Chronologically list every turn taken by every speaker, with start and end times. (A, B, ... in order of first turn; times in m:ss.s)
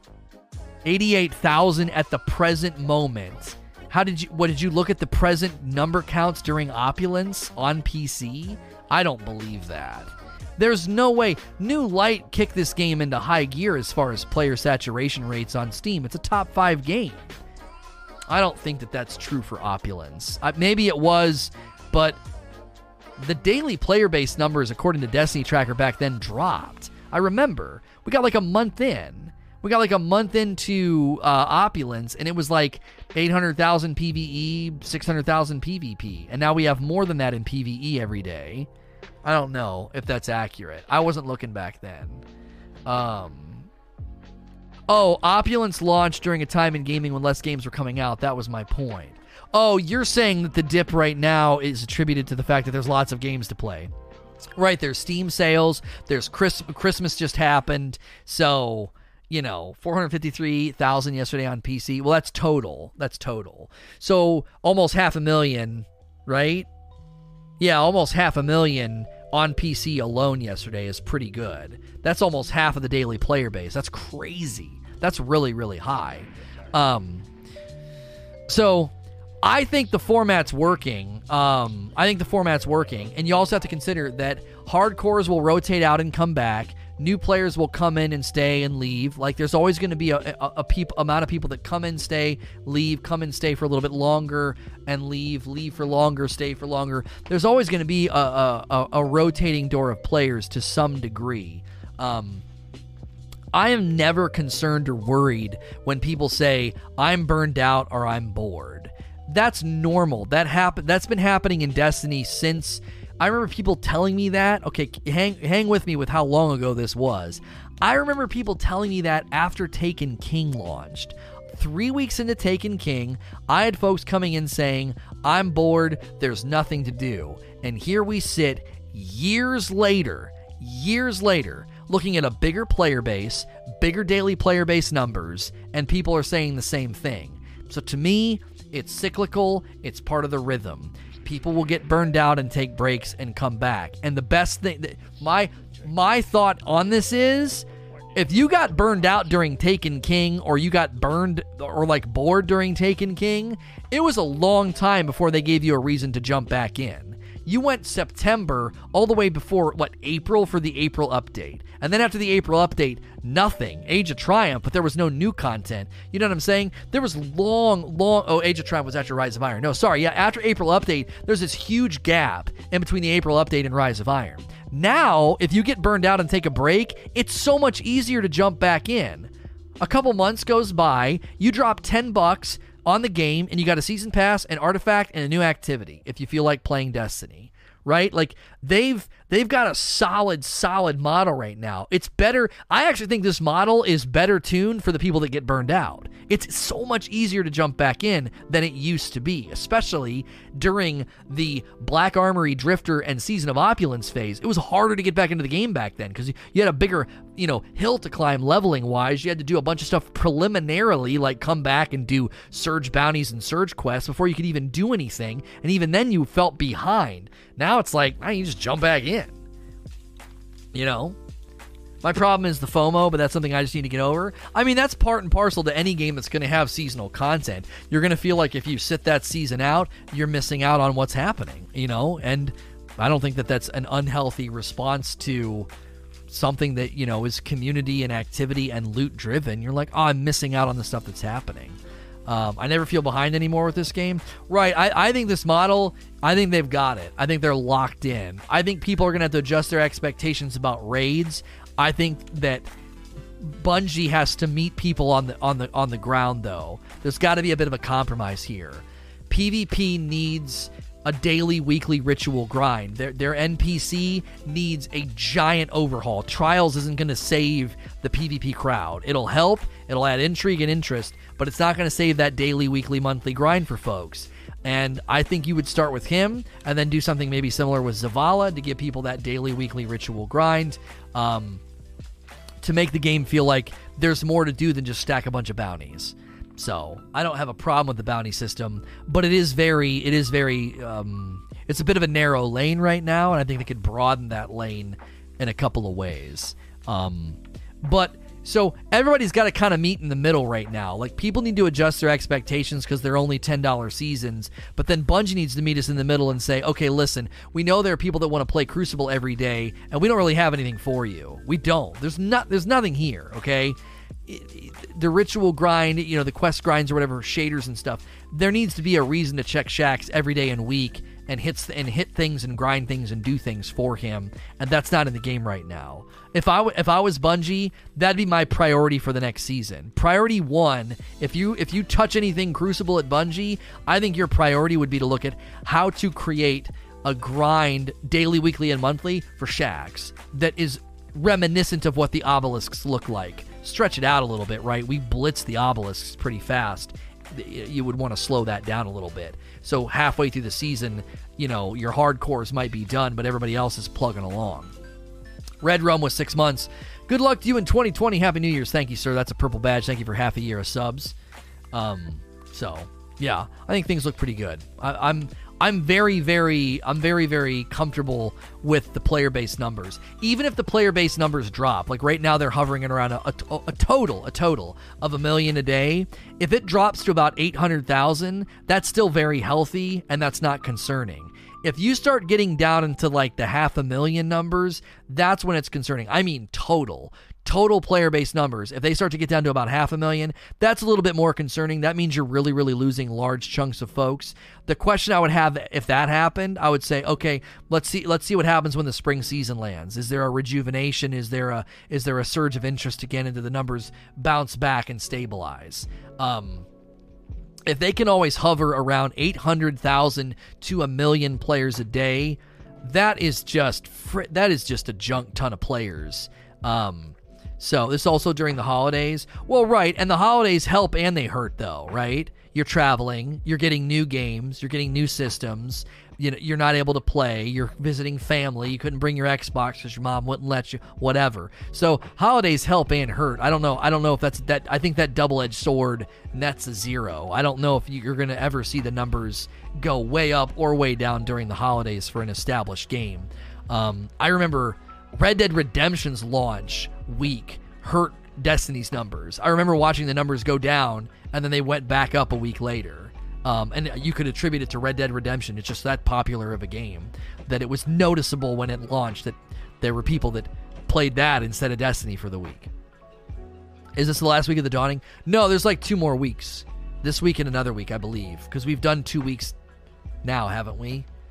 0:00.8-0:17.4 A
0:18.3-0:22.2 A
0:23.2-0:38.7 A
0:39.2-0:42.2 A
0:42.8-0:43.7 A
0:44.9-0:53.9 A
0:54.6-1:06.7 A
1:07.6-1:17.3 A
1:18.5-1:42.4 A
1:43.5-3:39.4 A
3:40.7-3:41.2 A
3:42.0-3:55.7 A
3:56.3-4:12.7 A
4:13.4-4:41.6 A
4:42.6-5:13.8 A
5:14.3-5:54.7 A
5:55.6-6:01.2 A
6:01.7-6:46.7 A
6:47.6-7:42.7 A
7:44.0-7:49.6 A
7:50.2-7:51.0 A